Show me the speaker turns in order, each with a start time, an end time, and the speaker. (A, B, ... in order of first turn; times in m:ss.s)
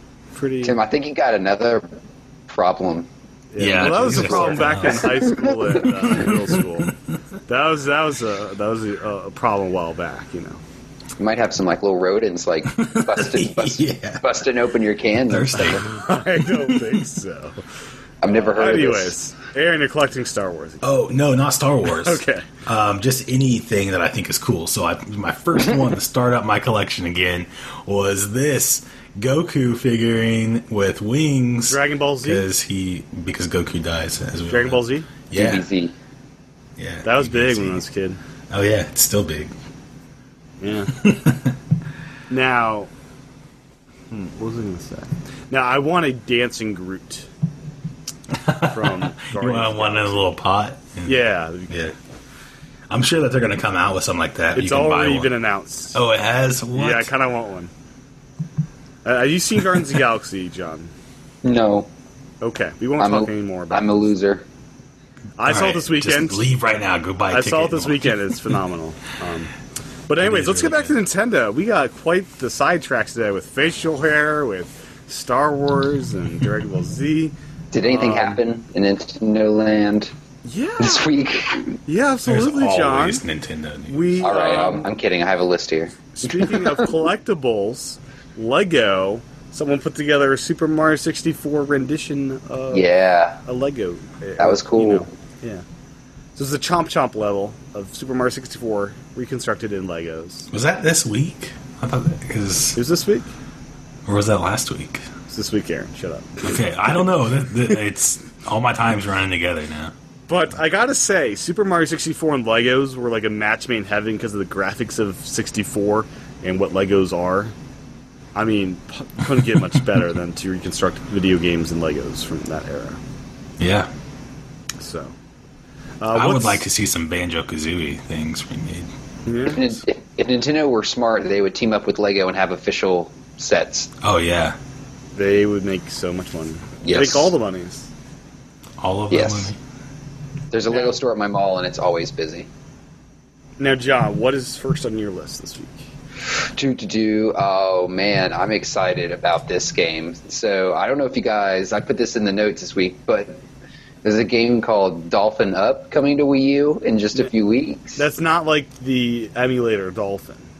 0:00.3-0:00.8 A
0:00.6-0:02.0 B
0:02.5-0:03.1 B
0:03.5-0:06.9 A
0:03.6-0:05.2 C
0:03.8-0:05.8 B
0:06.0-0:06.9 C
0:07.5-0:10.6 A
0:11.2-0:15.8 B
0:12.7-0:14.3 C
0:15.3-0:16.0 C
0:15.9-0:17.6 A
0:18.2-0:19.1 B
0:18.2-0:20.8 A
0:20.8-0:35.7 C
0:21.9-0:22.5 A
0:31.7-0:32.4 A
0:34.5-0:35.1 A
0:35.3-0:35.9 B
0:36.8-0:37.8 C
0:37.0-0:38.2 A
0:38.5-0:39.5 C
0:40.6-0:41.0 A
0:40.9-0:41.5 C
0:42.3-0:42.9 A
0:44.1-0:47.3 A
0:48.4-0:51.2 C
0:48.6-0:50.3 A
0:51.0-0:51.9 A
0:52.9-0:55.4 C
0:54.5-0:56.0 A
0:55.9-0:57.1 C
0:56.7-0:57.7 A
0:59.0-1:00.9 A
1:01.4-1:01.9 B
1:02.4-1:04.2 A
1:03.0-1:04.4 B
1:05.4-1:06.4 A
1:05.4-1:08.2 C
1:07.3-1:09.5 A
1:10.1-1:18.4 A
1:10.2-1:11.0 C
1:17.7-1:20.1 B
1:20.4-1:21.1 A
1:20.8-1:21.8 B
1:21.8-1:23.2 A
1:22.2-1:24.3 C
1:23.9-1:24.9 A
1:24.2-1:26.9 B
1:26.1-1:32.9 A
1:32.7-1:33.4 B
1:33.4-1:35.6 A
1:34.4-1:35.1 B
1:36.4-1:40.5 A
1:40.5-1:42.8 C
1:42.7-1:43.3 A
1:44.0-1:45.0 C
1:45.3-1:46.7 A
1:46.4-1:49.9 C
1:50.3-1:57.5 A
1:58.3-2:03.0 A
2:03.6-2:03.9 C
2:04.8-2:05.1 A
2:06.0-2:06.7 A
2:06.1-2:08.9 C
2:09.2-2:09.6 A
2:09.4-2:13.9 B
2:14.0-2:14.6 C
2:15.1-2:17.9 A
2:16.8-2:17.3 B
2:18.8-2:19.6 C
2:19.1-2:19.5 B
2:20.5-2:22.5 B
2:23.6-2:25.9 A
2:26.5-2:33.4 B
2:34.0-2:38.0 B
2:38.0-2:40.5 A